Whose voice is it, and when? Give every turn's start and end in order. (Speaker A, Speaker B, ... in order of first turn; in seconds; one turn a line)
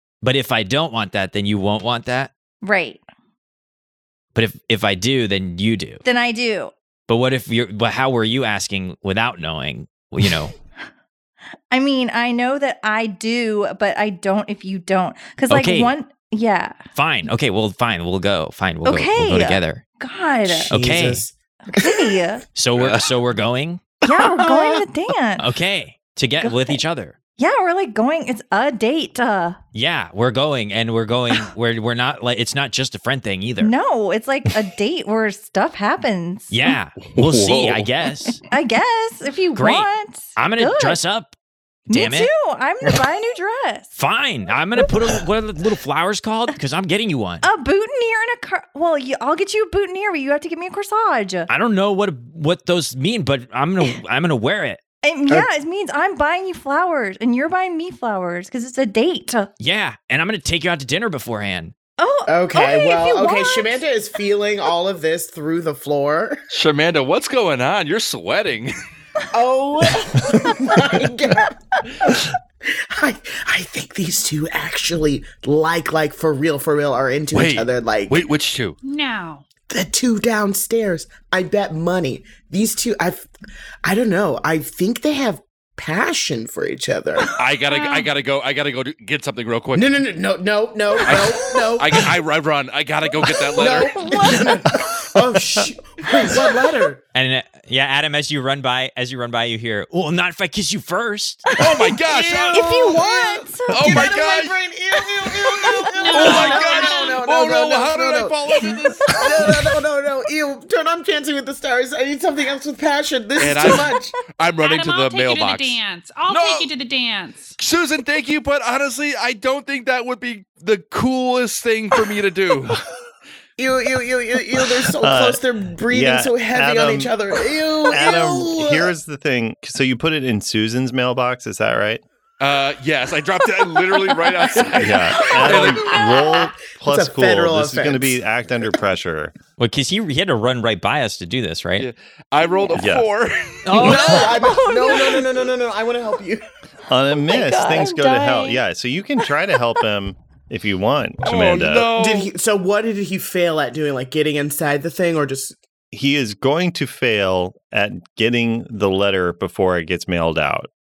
Speaker A: 0.2-2.3
Speaker B: 2.6-3.0
Speaker A: 4.3-6.0
Speaker B: 6.0-6.7
Speaker A: 7.1-10.6
Speaker B: 11.7-16.8
Speaker A: 15.5-15.9
Speaker A: 16.9-19.8
Speaker B: 18.9-20.7
Speaker C: 20.5-22.0
Speaker A: 20.7-21.2
Speaker B: 21.7-22.4
Speaker A: 22.6-23.9
Speaker D: 22.8-23.1
Speaker B: 24.1-25.4
Speaker A: 25.4-27.1
Speaker B: 26.4-26.8
Speaker B: 27.4-29.6
Speaker A: 29.8-33.7
Speaker B: 33.6-36.5
Speaker A: 36.5-38.4
Speaker D: 37.1-37.9
Speaker B: 38.5-41.0
Speaker A: 39.5-41.4
Speaker A: 41.9-42.3
Speaker B: 41.9-43.9
Speaker A: 44.0-47.4
Speaker B: 47.4-51.5
Speaker A: 51.5-54.8
Speaker B: 55.0-59.5
Speaker A: 59.6-61.8
Speaker B: 62.0-63.8
Speaker C: 62.3-66.4
Speaker D: 66.5-68.7
Speaker C: 69.3-78.2
Speaker D: 77.3-78.8
Speaker E: 78.8-79.4
Speaker C: 79.7-83.3
Speaker C: 83.8-87.3
Speaker D: 87.4-90.0
Speaker E: 87.7-88.1
Speaker C: 89.8-92.1
Speaker D: 91.0-94.4
Speaker C: 93.2-97.0
Speaker A: 97.2-101.5
Speaker D: 101.6-102.9
Speaker C: 102.1-114.2
Speaker B: 102.5-104.1
Speaker D: 103.7-104.6
Speaker E: 106.0-107.2
Speaker D: 106.1-109.8
Speaker D: 113.4-116.7
Speaker E: 114.6-117.6
Speaker D: 117.6-122.8
Speaker C: 123.6-128.9
Speaker F: 125.0-127.1
Speaker F: 127.9-132.0
Speaker D: 132.4-136.0
Speaker C: 134.8-138.2
Speaker F: 134.8-139.4
Speaker A: 139.6-141.9
Speaker D: 141.8-144.3
Speaker B: 142.4-142.8
Speaker F: 142.8-143.1
Speaker A: 143.7-144.4
Speaker C: 143.8-146.4
Speaker B: 144.3-145.2
Speaker F: 146.9-151.9
Speaker B: 147.2-148.6
Speaker D: 151.2-152.3
Speaker C: 151.9-155.6
Speaker F: 155.9-160.7